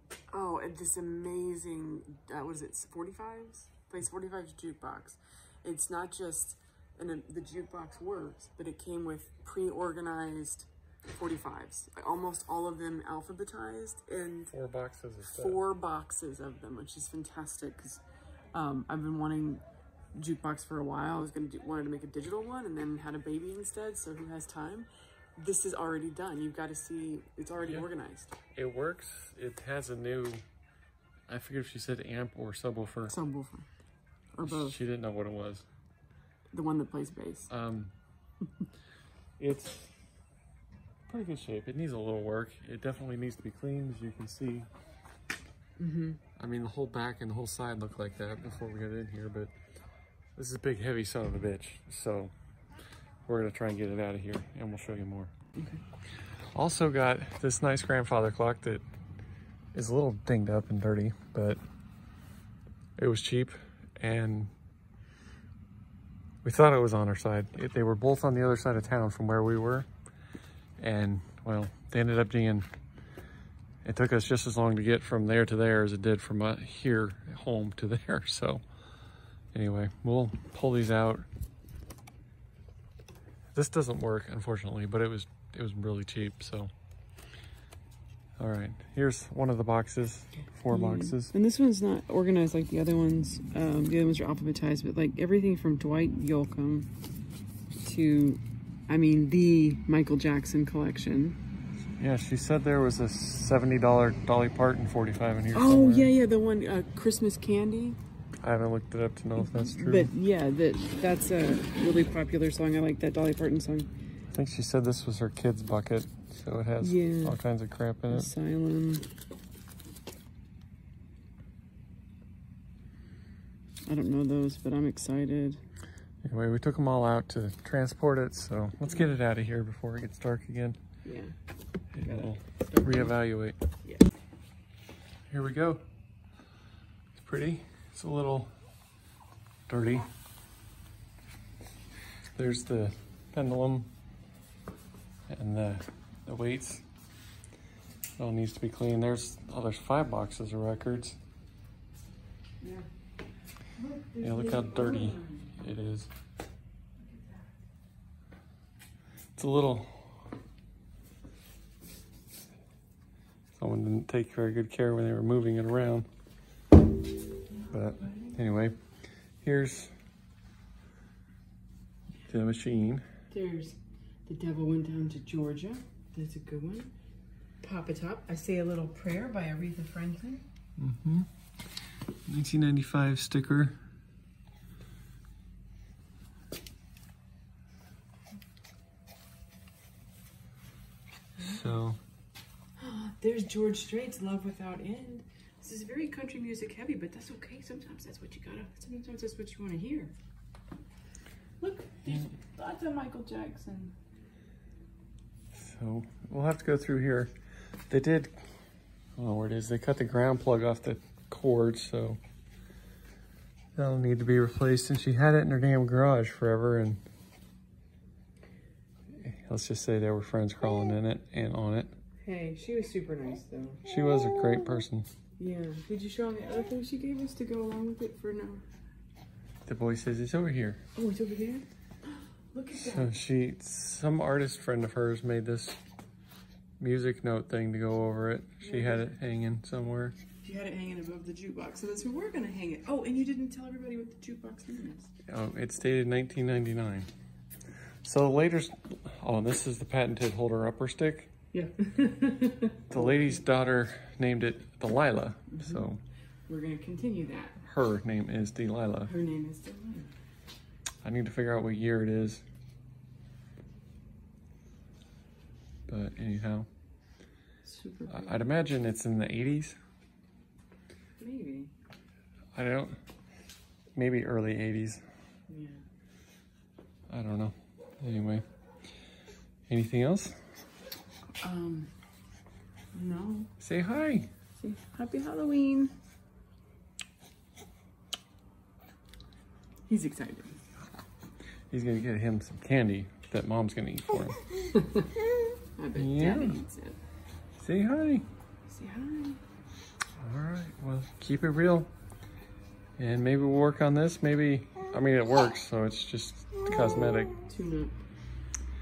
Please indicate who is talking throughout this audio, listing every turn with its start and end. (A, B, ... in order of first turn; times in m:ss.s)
0:00.3-0:14.5 A
0:14.5-0:15.6 B
0:15.3-0:18.0 A
0:18.5-0:19.6 A
0:20.1-0:28.3 A
0:28.5-0:30.4 B
0:31.3-0:33.1 B
0:33.1-0:33.7 A
0:34.3-0:34.8 A
0:34.4-0:35.6 B
0:36.5-0:37.5 A
0:37.5-0:37.9 B
0:39.4-0:39.9 B
0:41.1-0:44.7 B
0:45.8-0:46.2 A
0:46.4-0:49.5 B
0:50.4-0:52.3 B
0:53.2-0:55.3 B
0:55.6-0:55.8 A
0:56.5-0:58.8 B
0:59.7-1:01.6 B
1:03.0-1:04.5 B
1:06.4-1:09.9 B
1:10.8-1:12.6 B
1:13.8-1:18.6 B
1:19.5-1:21.2 B
1:23.5-1:26.7 B
1:28.4-1:31.3 B
1:30.7-1:36.9 A
1:37.8-1:41.4 A
1:42.0-1:46.1 B
1:45.5-1:48.0 A
1:48.4-1:50.1 B
1:49.4-1:53.9 A
1:54.3-1:58.3 B
1:56.8-1:57.4 A
1:58.1-1:59.0 A
2:03.9-2:05.6 A
2:06.2-2:10.8 B
2:11.0-2:11.3 A
2:11.9-2:13.6 B
2:11.9-2:13.2 A
2:15.3-2:15.8 B
2:17.1-2:18.5 B
2:19.7-2:20.1 B
2:22.4-2:23.9 B
2:25.3-2:26.8 B
2:28.2-2:31.2 B
2:33.8-2:35.6 A
2:34.2-2:36.1 B
2:37.1-2:37.4 A
2:39.4-2:40.2 B
2:43.6-2:46.1 B
2:47.6-2:48.3 A
2:47.7-2:48.8 B
2:49.4-2:49.9 B
2:52.3-2:53.0 B
2:53.3-2:56.9 A
2:57.6-3:00.4 A
3:00.8-3:01.3 B
3:02.3-3:03.8 B
3:11.4-3:11.7 A
3:11.4-3:12.0 B
3:12.8-3:20.1 A
3:21.6-3:23.9 A
3:25.5-3:27.3 B
3:27.9-3:28.3 B
3:29.2-3:32.2 B
3:33.8-3:37.0 B
3:39.2-3:41.9 B
3:42.2-3:43.8 A
3:43.8-3:45.1 B
3:45.4-3:48.6 A
3:49.6-3:50.8 B
3:50.9-3:51.6 A
3:52.5-3:53.1 A
3:52.8-3:55.8 B
3:56.8-4:00.2 B
3:58.6-3:59.1 A
4:00.4-4:05.1 A
4:05.3-4:07.1 B
4:08.0-4:11.3 B
4:11.5-4:13.2 A
4:12.9-4:16.0 B
4:15.5-4:15.9 A
4:16.5-4:17.6 A
4:17.6-4:19.1 B
4:19.0-4:20.1 A
4:21.0-4:22.4 B
4:25.9-4:26.7 B
4:27.6-4:28.4 A
4:28.1-4:29.8 B
4:31.2-4:31.7 A
4:32.5-4:33.0 B
4:33.9-4:35.0 B
4:35.5-4:35.8 A
4:37.1-4:38.4 B
4:39.7-4:40.4 B
4:41.4-4:41.9 A
4:42.9-4:43.5 A
4:43.6-4:44.3 B
4:44.6-4:45.9 A
4:49.9-4:50.6 A
4:51.7-4:54.4 B
4:54.7-4:55.1 A
4:55.8-4:57.0 A
4:55.9-4:56.6 B
4:57.6-4:58.2 B
4:58.7-4:59.4 A
5:00.2-5:01.9 B
5:03.0-5:07.4 B
5:06.7-5:08.0 A